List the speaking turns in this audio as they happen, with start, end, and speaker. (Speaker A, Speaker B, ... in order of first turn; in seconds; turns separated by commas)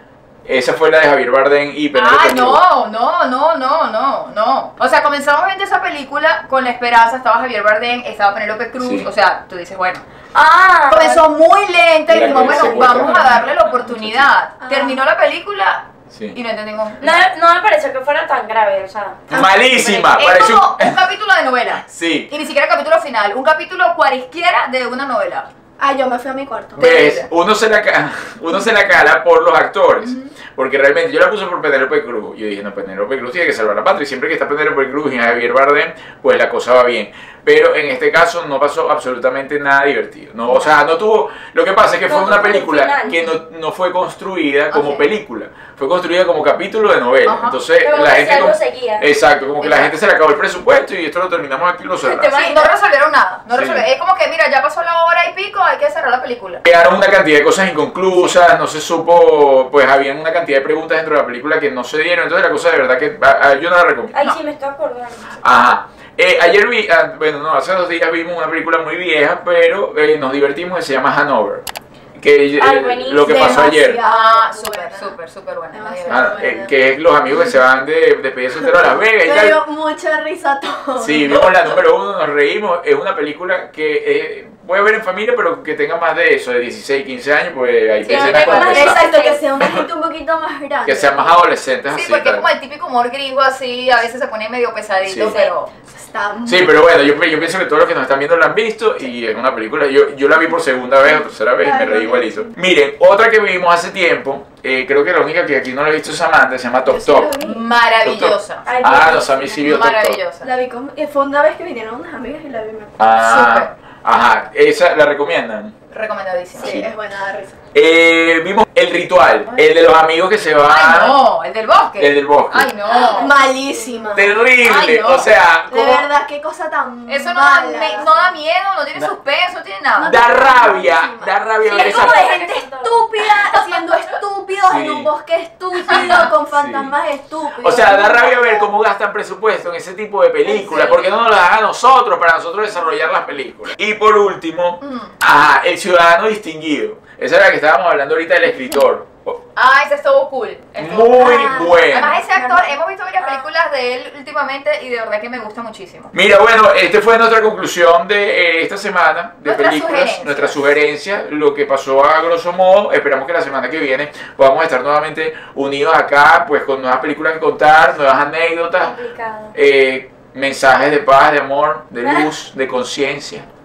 Speaker A: 0.4-2.6, Speaker B: 1.9-10.0, Speaker A: 8.8-9.1, Speaker C: 10.3-11.2, Speaker B: 10.9-17.2, Speaker A: 12.1-14.3, Speaker D: 14.6-15.0, Speaker A: 16.1-16.4, Speaker C: 17.0-19.2, Speaker A: 19.3-21.0, Speaker D: 19.3-20.1, Speaker B: 20.0-25.5, Speaker A: 21.8-22.3, Speaker D: 25.8-26.8, Speaker A: 26.8-52.4, Speaker B: 26.8-27.3, Speaker B: 30.0-30.3, Speaker C: 42.0-43.3, Speaker D: 44.7-45.0, Speaker B: 47.2-47.6, Speaker C: 47.8-49.0, Speaker C: 49.6-49.9, Speaker C: 52.0-52.7, Speaker B: 52.3-56.6, Speaker A: 53.5-53.9, Speaker A: 56.6-64.2, Speaker C: 64.1-65.4, Speaker A: 65.4-71.6, Speaker A: 72.2-74.0, Speaker C: 72.6-73.6, Speaker D: 73.2-75.2, Speaker B: 74.0-76.3, Speaker D: 75.7-76.8, Speaker A: 76.0-79.6, Speaker D: 79.2-81.8, Speaker A: 81.0-89.0, Speaker C: 88.0-89.4, Speaker B: 88.1-88.6, Speaker D: 88.3-91.5, Speaker A: 89.6-89.8, Speaker A: 90.8-92.4, Speaker B: 91.9-95.7, Speaker A: 95.0-95.4, Speaker D: 95.9-96.8, Speaker A: 96.5-107.3, Speaker D: 101.0-102.5, Speaker D: 106.8-107.6, Speaker B: 107.4-108.7, Speaker A: 108.0-110.2, Speaker C: 108.6-109.6, Speaker D: 108.9-109.9, Speaker B: 109.6-110.5, Speaker D: 110.4-113.0, Speaker A: 113.0-115.7, Speaker B: 113.2-113.7, Speaker B: 115.9-116.8, Speaker D: 116.6-117.5, Speaker A: 116.6-116.9, Speaker A: 117.7-121.2, Speaker B: 120.6-123.3, Speaker A: 122.0-122.7, Speaker D: 122.9-124.4, Speaker C: 123.5-123.8, Speaker B: 124.0-125.3, Speaker A: 124.1-126.1, Speaker D: 125.7-128.4, Speaker B: 127.1-130.2, Speaker D: 129.9-138.7, Speaker A: 130.1-132.3, Speaker C: 131.6-133.0, Speaker A: 134.6-135.1, Speaker A: 135.9-136.9, Speaker B: 135.9-136.2, Speaker A: 137.6-149.4, Speaker B: 144.8-145.1, Speaker B: 149.6-156.1, Speaker A: 150.8-152.2, Speaker D: 151.1-152.7, Speaker C: 153.2-153.5, Speaker A: 156.1-168.9, Speaker B: 159.4-160.7, Speaker C: 168.8-169.5, Speaker A: 169.5-173.5